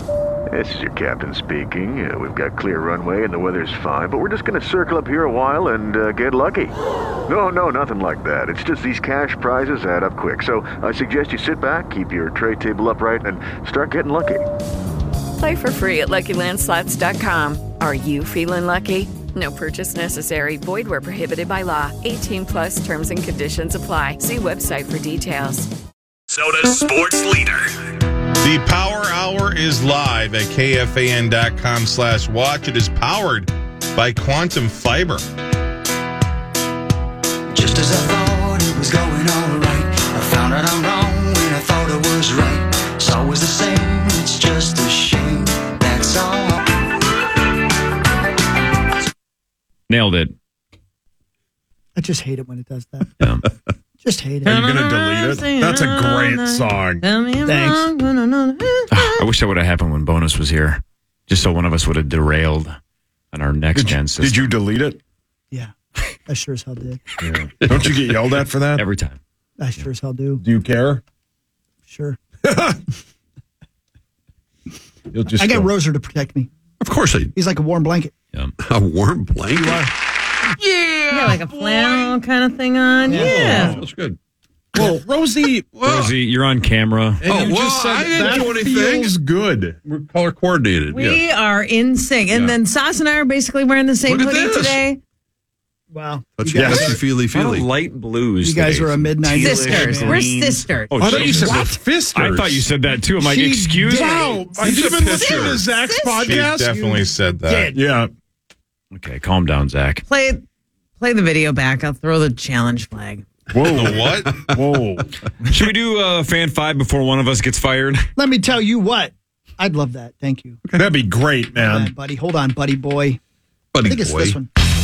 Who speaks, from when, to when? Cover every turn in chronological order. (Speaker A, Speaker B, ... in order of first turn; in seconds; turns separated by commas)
Speaker A: 0.5-6.8, Speaker A: 7.3-14.4, Speaker B: 15.4-25.7, Speaker C: 28.4-35.2, Speaker D: 37.5-46.6, Speaker E: 49.9-50.3, Speaker F: 52.0-53.1, Speaker E: 53.2-53.4, Speaker F: 54.0-54.5, Speaker G: 54.4-57.0, Speaker H: 54.4-59.2, Speaker F: 57.5-57.8, Speaker E: 58.9-62.8, Speaker E: 63.3-64.5, Speaker G: 63.7-65.0, Speaker F: 66.2-67.0, Speaker G: 67.2-68.8, Speaker I: 67.6-67.9, Speaker E: 68.7-69.2, Speaker F: 69.6-70.4, Speaker G: 70.4-71.0, Speaker F: 71.9-72.2, Speaker G: 72.4-72.8, Speaker G: 75.1-75.7, Speaker F: 75.3-76.5, Speaker I: 76.8-77.3, Speaker F: 77.3-78.1, Speaker I: 78.6-79.9, Speaker F: 79.5-79.9, Speaker H: 81.1-83.8, Speaker F: 83.1-83.7, Speaker G: 83.1-83.8, Speaker I: 83.2-84.2, Speaker G: 84.7-85.7, Speaker I: 85.7-86.1, Speaker E: 85.8-87.2, Speaker G: 87.2-89.8, Speaker I: 87.2-89.1, Speaker I: 89.8-91.2, Speaker H: 90.9-95.0, Speaker I: 92.3-92.5, Speaker I: 94.0-94.8, Speaker F: 95.9-97.0, Speaker I: 96.4-97.7, Speaker G: 96.5-97.0, Speaker E: 97.3-104.4, Speaker F: 98.4-100.2, Speaker H: 99.4-101.3, Speaker G: 101.0-102.7, Speaker F: 101.1-101.6, Speaker G: 103.2-108.1, Speaker I: 104.6-105.6, Speaker H: 105.0-106.4, Speaker C: 106.2-107.7, Speaker F: 107.5-107.8, Speaker E: 108.9-110.0, Speaker H: 110.1-110.4, Speaker H: 111.0-113.2, Speaker G: 113.5-115.5, Speaker C: 113.7-114.3, Speaker E: 115.5-118.0, Speaker F: 118.2-120.6, Speaker G: 120.7-121.9, Speaker F: 121.5-123.2, Speaker I: 123.7-124.4, Speaker F: 123.8-124.5